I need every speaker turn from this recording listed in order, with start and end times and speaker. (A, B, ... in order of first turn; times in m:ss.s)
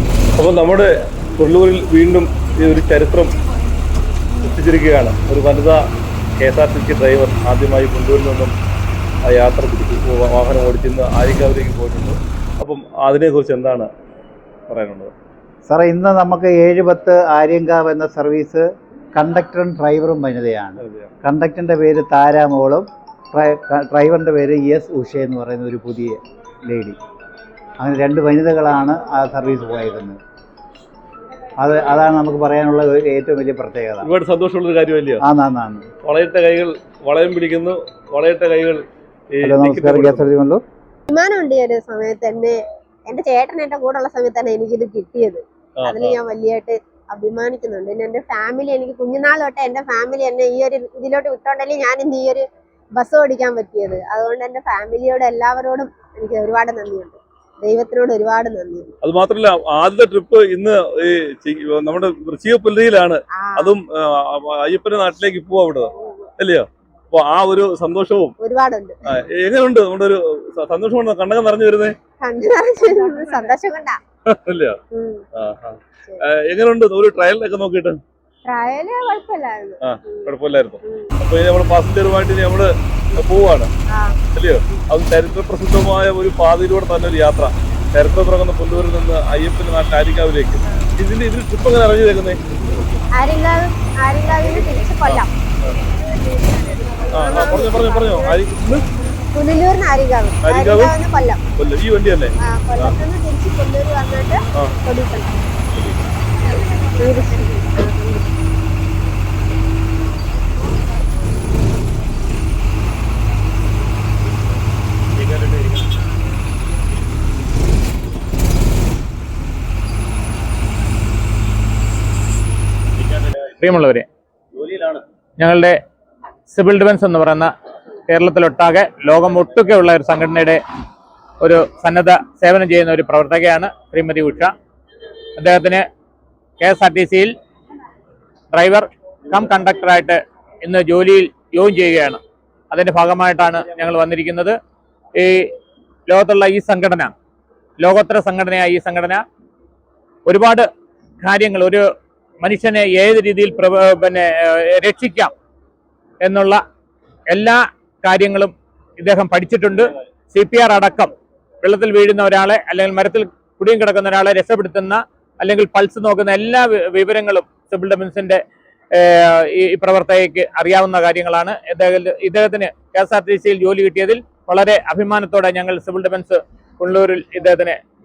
0:00.4-0:03.4 A
0:04.4-0:05.8 A
0:06.4-0:08.5 A
0:09.2-0:13.9 A
0:14.7-0:15.1 A
0:15.7-0:27.0 B
0:20.8-0:21.1 A
0:27.8-0:30.2 B
0:31.6-0:34.1 B
0:34.0-0:35.2 A
0:35.2-0:35.9 B
0:36.0-0:38.8 A
0:39.4-0:40.3 A
0:39.4-0:40.6 B
0:41.1-0:58.9 C
0:45.8-0:46.2 A
0:59.0-1:08.4 A
1:03.4-1:03.7 C
1:08.4-1:08.9 C
1:09.0-1:12.0 A
1:12.2-1:14.0 C
1:14.3-1:14.8 A
1:14.9-1:15.2 C
1:15.4-1:18.0 A
1:18.4-1:20.3 C
1:19.8-1:23.7 A
1:20.8-1:21.2 C
1:23.9-1:24.2 C
1:24.3-1:32.4 A
1:33.1-1:35.3 C
1:35.1-1:35.7 A
1:35.8-1:38.4 C
1:37.1-1:38.9 A
1:39.3-1:41.4 C
1:40.4-1:40.9 A
1:41.6-1:43.0 A
1:42.4-1:45.4 C
1:45.7-1:46.0 A
1:46.4-1:48.3 C
2:03.6-2:04.1 D
2:05.4-2:05.8 D
2:06.5-2:07.5 D
2:08.1-2:10.6 D
2:11.4-2:14.5 D
2:15.4-2:15.8 D
2:16.6-2:17.3 D
2:18.5-2:22.2 D
2:22.7-2:24.6 D
2:25.2-2:25.5 D
2:26.1-2:27.1 D
2:27.8-2:29.2 D
2:30.3-2:30.7 D
2:31.2-2:31.9 D
2:32.4-2:35.3 D
2:36.2-2:36.6 D
2:37.3-2:41.1 D
2:41.6-2:57.8 D